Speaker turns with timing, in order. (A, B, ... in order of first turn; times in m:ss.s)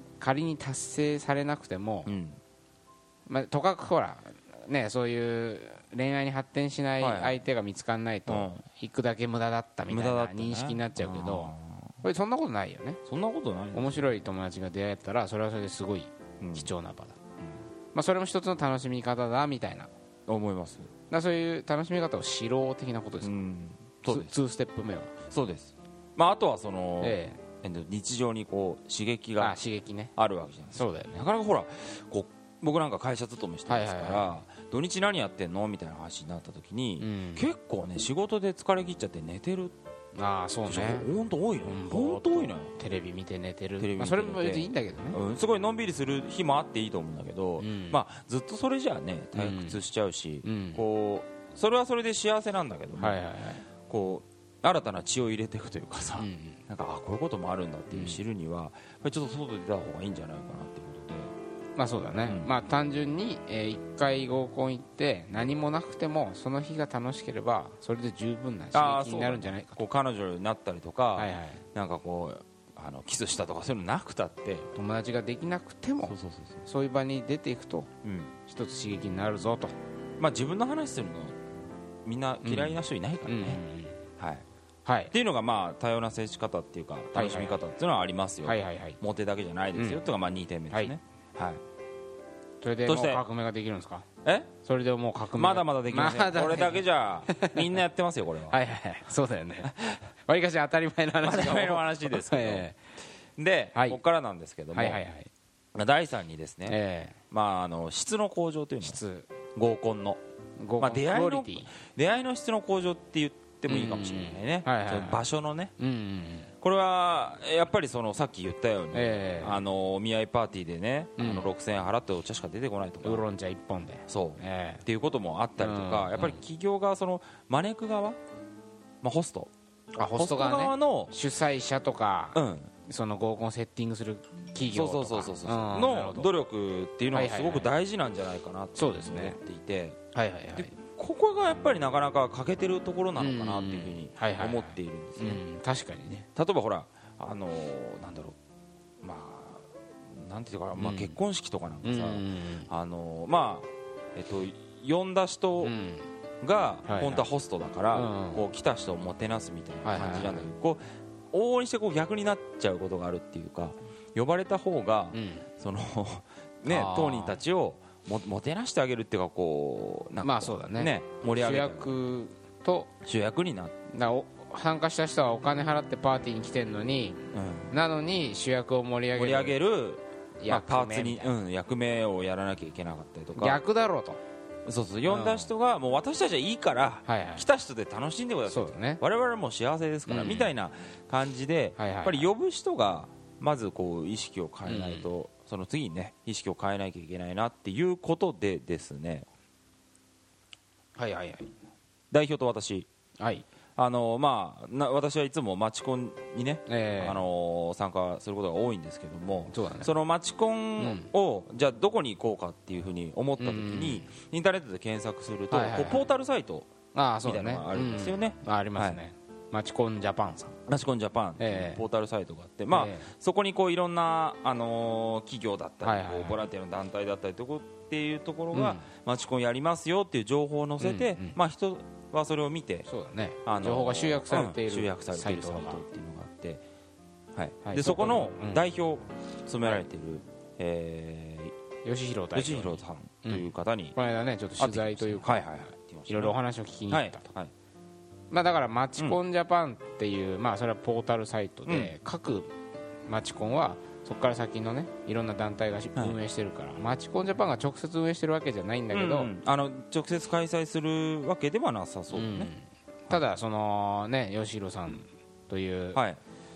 0:00.2-0:02.1 A
0:02.0-0:02.4 B
0:03.3-0:13.0 A
0:07.0-0:07.4 B
0:08.3-0:08.6 B
0:09.9-0:12.0 B
0:13.0-0:14.1 B
0:13.7-0:17.2 A
0:16.4-0:16.7 B
0:17.9-0:19.9 A
0:20.3-0:20.9 B
0:21.1-0:23.3 A
0:23.2-0:24.3 B
0:24.1-0:25.1 A
0:25.3-0:29.6 B
0:27.0-0:27.4 A
0:29.4-0:30.1 A
0:30.2-0:39.7 B
0:30.7-0:31.2 A
0:33.7-0:34.4 A
0:37.0-0:37.5 A
0:40.1-0:41.1 A
0:40.7-0:42.7 B
0:41.6-0:45.2 A
0:43.8-0:53.2 B
0:47.6-0:48.0 A
0:49.3-0:49.8 A
0:50.4-0:50.8 A
0:53.0-0:53.6 A
0:53.8-1:01.3 B
0:56.2-0:56.6 A
0:57.9-0:58.2 A
1:01.8-1:09.8 A
1:02.2-1:02.5 B
1:08.7-1:14.7 B
1:11.2-1:11.6 A
1:14.7-1:17.9 A
1:16.0-1:16.6 B
1:18.0-1:18.3 B
1:18.5-1:19.7 A
1:20.2-1:21.4 B
1:22.0-1:23.6 B
1:22.4-1:24.0 A
1:24.2-1:24.4 B
1:24.8-1:25.1 A
1:25.1-1:31.6 B
1:27.1-1:27.6 A
1:28.4-1:29.0 A
1:29.7-1:30.0 A
1:32.6-1:34.1 A
1:32.8-1:33.2 B
1:34.2-1:34.5 B
1:34.6-1:37.8 A
1:35.3-1:38.6 B
1:38.5-1:42.8 A
1:39.6-1:40.0 B
1:41.2-1:42.6 B
1:43.4-1:45.0 B
1:43.7-1:44.0 A
1:44.7-1:45.3 A
1:45.7-1:46.8 B
1:46.7-1:47.2 A
1:47.3-1:49.0 B
1:48.8-1:49.3 A
1:49.5-1:50.2 B
1:50.6-1:51.7 A
1:50.8-1:55.7 B
1:53.7-1:55.2 A
1:55.8-1:56.5 A
1:56.6-2:03.2 B
1:58.9-1:59.6 A
2:01.2-2:01.5 A
2:03.0-2:04.8 A
2:04.1-2:08.2 B
2:05.6-2:06.4 A
2:09.0-2:11.1 B
2:09.9-2:16.3 A
2:12.3-2:12.7 B
2:14.7-2:20.0 B
2:17.1-2:17.7 A
2:18.8-2:19.4 A
2:20.1-2:20.7 A
2:20.5-2:25.4 B
2:23.2-2:26.3 A
2:26.3-2:28.4 B
2:29.0-2:35.7 B
2:30.8-2:31.2 A
2:31.8-2:32.7 A
2:35.6-2:36.1 A
2:36.4-2:52.0 B
2:36.8-2:37.2 A
2:37.9-2:38.4 A
2:39.8-2:40.5 A
2:45.1-2:45.5 A
2:46.6-2:47.4 A
2:50.2-2:52.9 A
2:53.0-2:53.7 B
2:53.9-2:59.6 A
2:57.3-2:57.7 B
2:59.1-3:03.6 B
3:00.4-3:01.3 A
3:03.4-3:04.2 A
3:04.6-3:19.3 B
3:05.1-3:05.5 A
3:07.0-3:07.5 A
3:08.5-3:09.0 A
3:10.1-3:10.5 A
3:11.8-3:12.3 A
3:14.6-3:15.1 A
3:21.0-3:21.5 A
3:22.1-3:22.9 B
3:23.2-3:23.4 A
3:23.8-3:36.7 B
3:26.7-3:27.2 A
3:29.5-3:29.9 A
3:30.8-3:31.1 A
3:33.4-3:34.1 A
3:35.5-3:36.0 A
3:36.9-3:40.6 A
3:37.2-3:39.0 B
3:40.7-3:52.9 B
3:41.4-3:41.8 A
3:42.7-3:43.1 A
3:45.8-3:46.4 A
3:48.5-3:48.9 A
3:50.8-3:51.4 A
3:52.9-3:55.8 A
3:53.4-3:56.6 B
3:57.3-4:01.5 B
3:57.6-3:58.6 A
4:01.8-4:05.4 A
4:02.3-4:03.9 B
4:04.6-4:06.4 B
4:06.1-4:07.3 A
4:06.9-4:07.5 B
4:08.3-4:12.5 A
4:11.7-4:11.9 B
4:13.1-4:19.3 A
4:18.9-4:22.5 B
4:22.1-4:26.0 A
4:25.9-4:26.2 B